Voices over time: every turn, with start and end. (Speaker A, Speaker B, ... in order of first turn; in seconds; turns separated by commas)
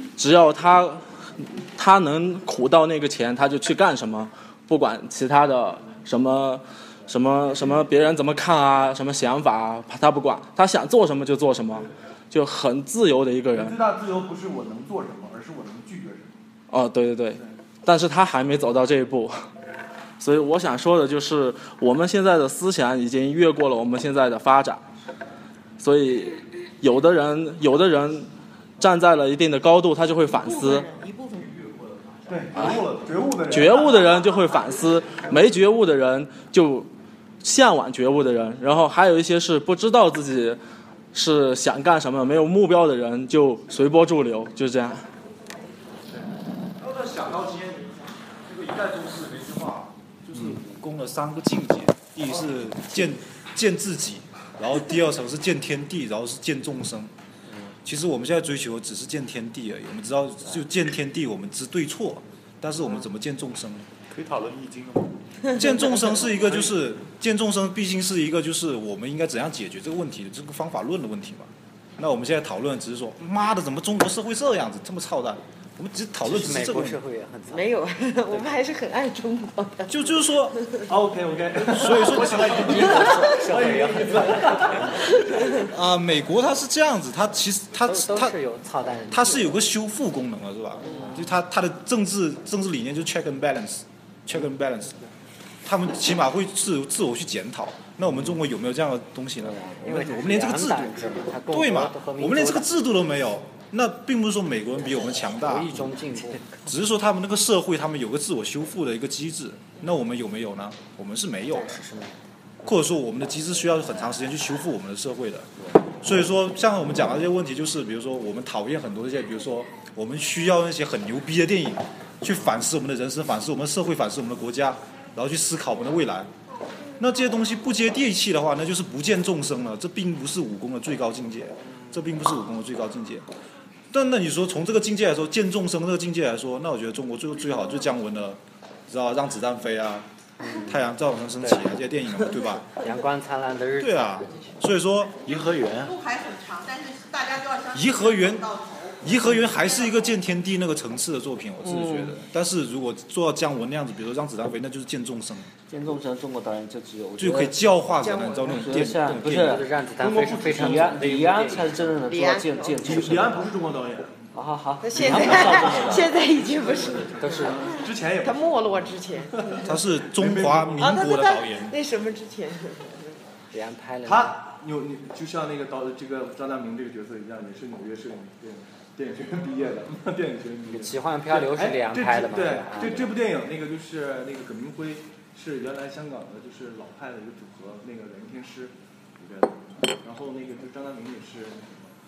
Speaker A: 0.1-13.8, Speaker B: 13.5-16.3, Speaker A: 16.7-19.5, Speaker A: 20.2-24.8, Speaker A: 25.8-30.9, Speaker C: 30.3-31.6, Speaker D: 31.4-33.0, Speaker B: 32.3-34.0, Speaker A: 33.5-36.9, Speaker A: 37.4-40.6, Speaker A: 41.1-45.1, Speaker E: 46.8-57.1, Speaker B: 50.3-50.6, Speaker E: 57.8-63.9, Speaker D: 64.1-65.2, Speaker E: 65.5-77.0, Speaker F: 76.2-78.5, Speaker G: 77.5-80.8, Speaker E: 79.9-80.6, Speaker B: 80.9-85.3, Speaker E: 81.7-82.5, Speaker F: 82.4-85.0, Speaker E: 85.7-88.4, Speaker F: 87.8-89.5, Speaker E: 89.1-95.0, Speaker F: 90.9-91.3, Speaker E: 95.6-106.1, Speaker F: 99.6-102.7, Speaker F: 105.0-106.6, Speaker E: 106.6-111.8, Speaker F: 111.5-112.1, Speaker E: 112.6-126.3, Speaker E: 127.0-133.3, Speaker E: 133.9-140.1, Speaker F: 140.4-140.8, Speaker E: 140.6-142.7, Speaker F: 141.4-141.7, Speaker F: 142.3-144.2, Speaker E: 143.8-145.2, Speaker D: 145.2-145.9, Speaker C: 145.3-150.0, Speaker E: 147.7-148.4, Speaker E: 149.0-155.5, Speaker H: 151.6-152.1, Speaker H: 155.7-157.6, Speaker E: 157.2-159.7, Speaker G: 158.0-158.5, Speaker H: 158.4-159.7, Speaker F: 159.1-161.9, Speaker B: 160.0-161.4, Speaker H: 160.5-163.5, Speaker G: 162.1-162.9, Speaker B: 162.8-164.2, Speaker H: 164.3-166.1, Speaker G: 164.8-167.1, Speaker B: 164.9-171.0, Speaker F: 167.2-167.7, Speaker G: 168.2-169.4, Speaker E: 169.6-171.7, Speaker G: 170.8-173.2, Speaker F: 173.5-174.3, Speaker B: 174.0-191.9, Speaker F: 180.7-183.1